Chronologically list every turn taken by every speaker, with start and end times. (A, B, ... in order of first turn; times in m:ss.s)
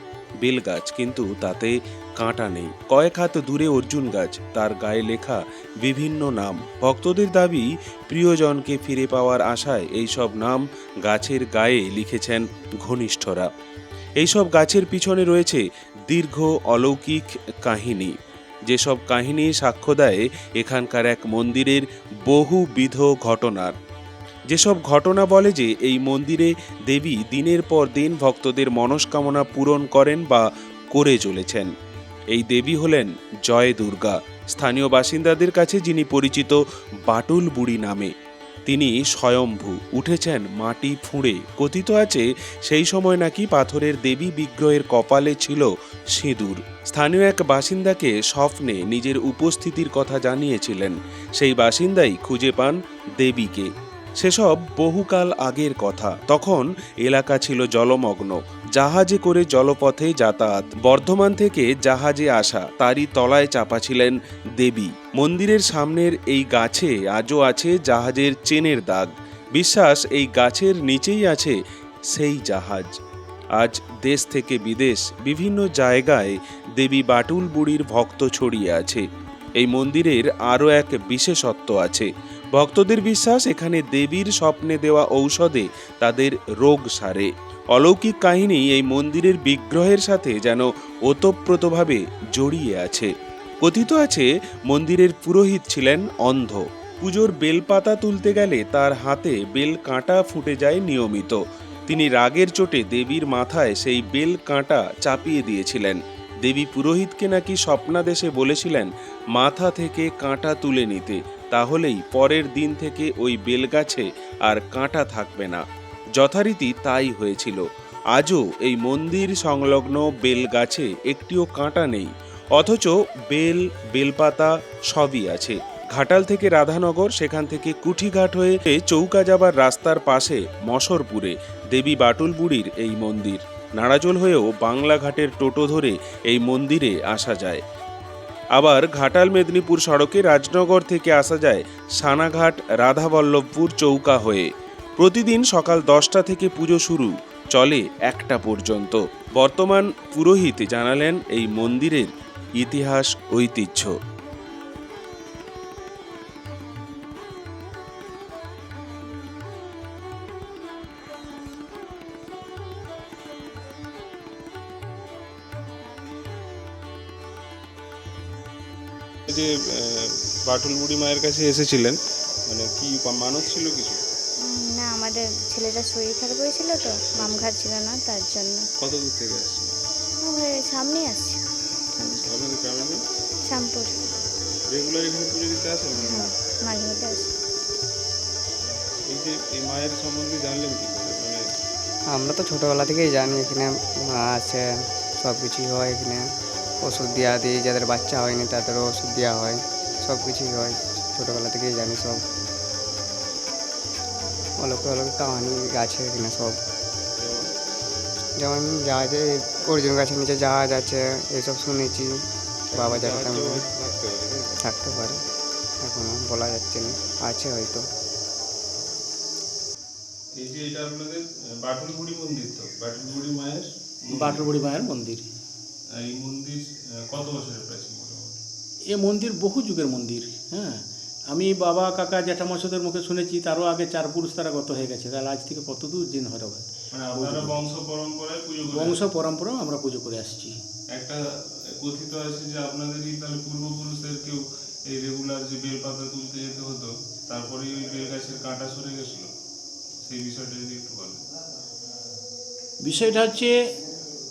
0:00.4-0:13.5 A
0:14.2-0:18.1 A
0:18.7-0:23.7 A
0:24.5-0:31.7 A
0:32.3-0:38.1 A
0:38.7-1:11.6 A
1:12.1-1:13.0 A
1:13.6-1:19.0 A
1:19.6-1:33.1 A
1:33.6-1:55.6 A
1:56.2-1:57.6 A
1:58.1-2:17.6 A
2:18.6-2:24.5 A
2:25.0-2:33.9 A
2:49.3-2:54.0 B
2:54.4-2:58.6 C
2:57.1-2:57.5 B
2:58.8-2:59.8 B
3:00.2-3:01.4 C
3:02.0-3:02.3 C
3:02.2-3:03.0 B
3:03.4-3:04.0 C
3:04.7-3:06.3 B
3:06.0-3:07.3 C
3:08.6-3:11.4 B
3:12.1-3:22.2 D
3:24.6-3:26.6 D
3:27.2-3:27.5 B
3:28.4-3:33.7 D
3:32.7-3:34.6 B
3:34.5-3:35.2 D
3:35.8-3:37.9 D
3:40.4-3:44.5 B
3:44.1-3:45.2 E
3:46.0-3:48.4 B
3:48.9-3:56.6 E
3:56.9-3:59.0 B
3:57.2-3:57.5 E
3:58.7-4:00.6 E
4:00.9-4:01.2 B
4:01.8-4:09.3 B
4:10.0-4:11.2 B
4:12.8-4:13.5 E